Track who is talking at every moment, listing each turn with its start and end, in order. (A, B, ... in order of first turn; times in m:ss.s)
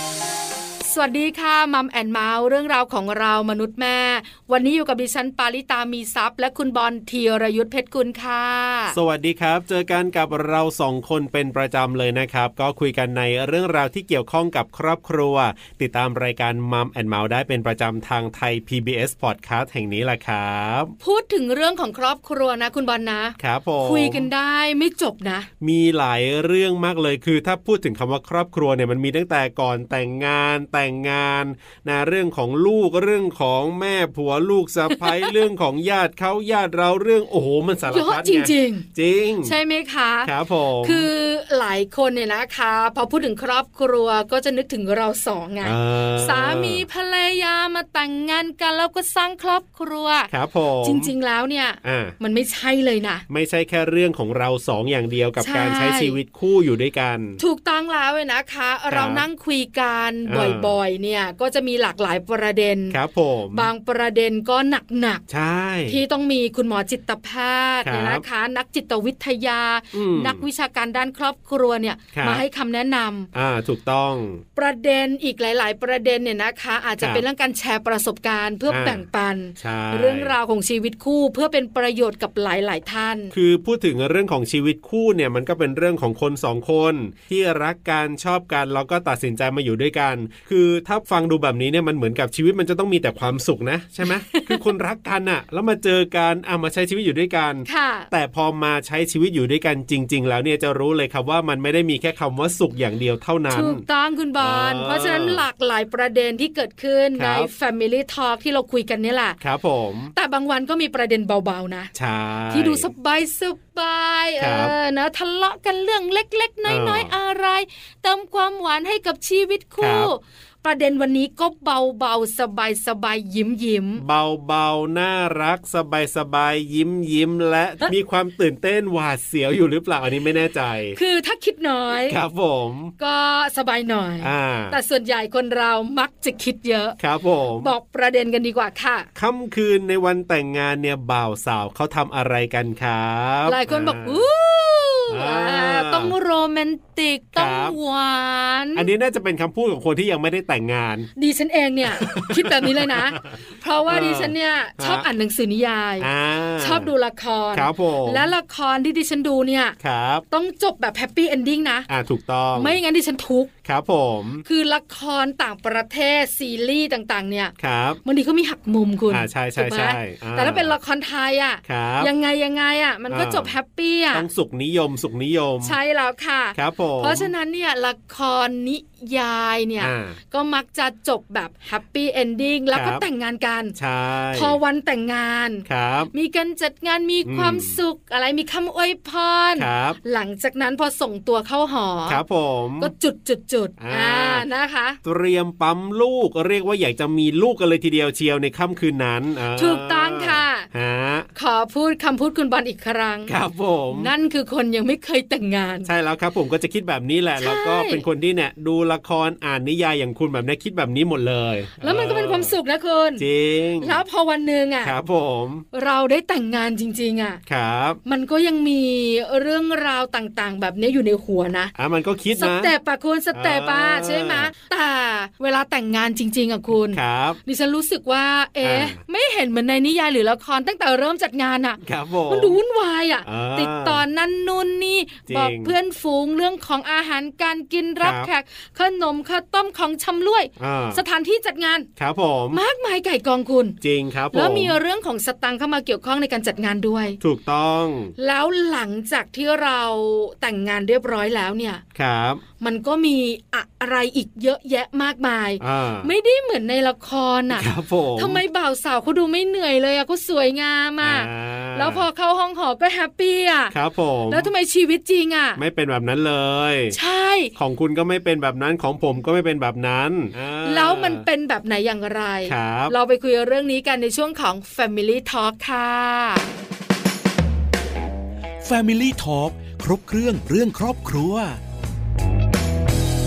0:00.8-0:09.0 A
0:08.9-0:20.9 B
0:21.0-0:25.5 A
0:23.4-0:24.3 B
0:25.6-0:39.5 B
0:34.9-0:35.3 A
0:37.9-0:38.9 A
0:39.4-0:50.3 A
0:40.2-0:41.1 B
0:45.6-0:46.8 B
0:50.3-0:51.1 B
0:50.8-0:53.2 A
0:51.8-0:52.2 B
0:53.3-0:57.4 B
0:55.4-0:56.2 A
0:57.4-1:03.0 A
0:58.9-0:59.2 B
1:00.2-1:00.7 B
1:02.9-1:03.7 B
1:03.5-1:05.2 A
1:05.3-1:06.0 B
1:05.9-1:13.3 A
1:07.8-1:08.2 B
1:09.9-1:10.4 B
1:12.1-1:12.4 B
1:13.3-1:14.4 B
1:14.6-1:23.3 A
1:18.7-1:19.0 B
1:19.6-1:20.3 B
1:23.3-1:43.8 B
1:34.0-1:34.7 A
1:37.6-1:38.1 A
1:43.5-1:49.4 A
1:44.4-1:45.4 B
1:47.2-1:47.5 B
1:49.4-1:50.1 B
1:50.1-1:51.9 A
1:51.9-1:52.9 B
1:52.5-2:04.0 A
1:54.4-1:54.7 B
1:56.7-1:57.1 B
1:59.8-2:00.1 B
2:04.0-2:11.0 B
2:10.9-2:12.2 A
2:12.0-2:12.9 B
2:13.0-2:17.0 A
2:14.2-2:14.8 B
2:17.0-2:17.7 B
2:17.6-2:19.1 A
2:19.2-2:24.2 B
2:23.4-2:28.9 A
2:25.1-2:26.1 B
2:27.3-2:27.8 B
2:28.7-2:31.1 B
2:31.2-2:36.1 A
2:31.8-2:35.0 B
2:36.0-2:36.9 B
2:36.6-2:39.8 A
2:37.5-2:38.3 B
2:39.8-2:40.2 B
2:40.3-2:41.9 A
2:41.9-2:42.8 B
2:42.5-2:43.5 A
2:43.6-2:44.4 B
2:44.4-2:54.2 A
2:47.6-2:48.0 B
2:49.1-2:50.7 B
2:51.6-2:52.1 B
2:53.1-2:53.5 B
2:54.1-2:55.8 B
2:55.6-3:03.7 A
2:56.5-2:57.3 B
2:59.8-3:00.2 B
3:02.7-3:03.0 B
3:03.8-3:04.6 B
3:04.3-3:12.2 A
3:05.6-3:06.1 B
3:07.2-3:07.8 B
3:09.6-3:10.0 B
3:12.1-3:12.9 B
3:12.8-3:15.0 A
3:13.8-3:14.4 B
3:15.0-3:21.3 B
3:19.6-3:20.7 A
3:21.3-3:23.4 A
3:23.3-3:24.1 B
3:23.9-3:25.9 A
3:25.8-3:32.5 B
3:27.4-3:28.0 A
3:31.8-3:33.2 A
3:33.2-3:34.0 B
3:33.8-3:34.9 A
3:34.8-3:35.6 B
3:35.7-3:37.4 A
3:37.4-3:38.0 B
3:38.0-3:41.7 A
3:41.7-3:42.7 B
3:42.3-4:01.9 A
3:43.3-3:44.5 B
3:46.9-3:47.4 B
3:48.6-3:49.0 B
3:51.8-3:52.6 B
3:53.2-3:54.0 B
3:55.3-3:55.8 B
3:58.0-3:58.3 B
4:00.6-4:01.0 B
4:02.0-4:02.6 B
4:02.5-4:03.8 A
4:03.8-4:04.8 B
4:04.3-4:07.2 A
4:07.2-4:08.1 B
4:08.2-4:11.8 A
4:11.9-4:12.4 B
4:12.6-4:23.7 A
4:15.6-4:16.1 B
4:17.5-4:18.4 B
4:21.0-4:22.0 B
4:23.7-4:24.5 B
4:24.3-4:25.6 A
4:25.6-4:27.0 B
4:26.9-4:27.5 A
4:27.5-4:31.2 B
4:30.6-4:36.5 A
4:32.5-4:32.9 B
4:38.6-4:41.6 C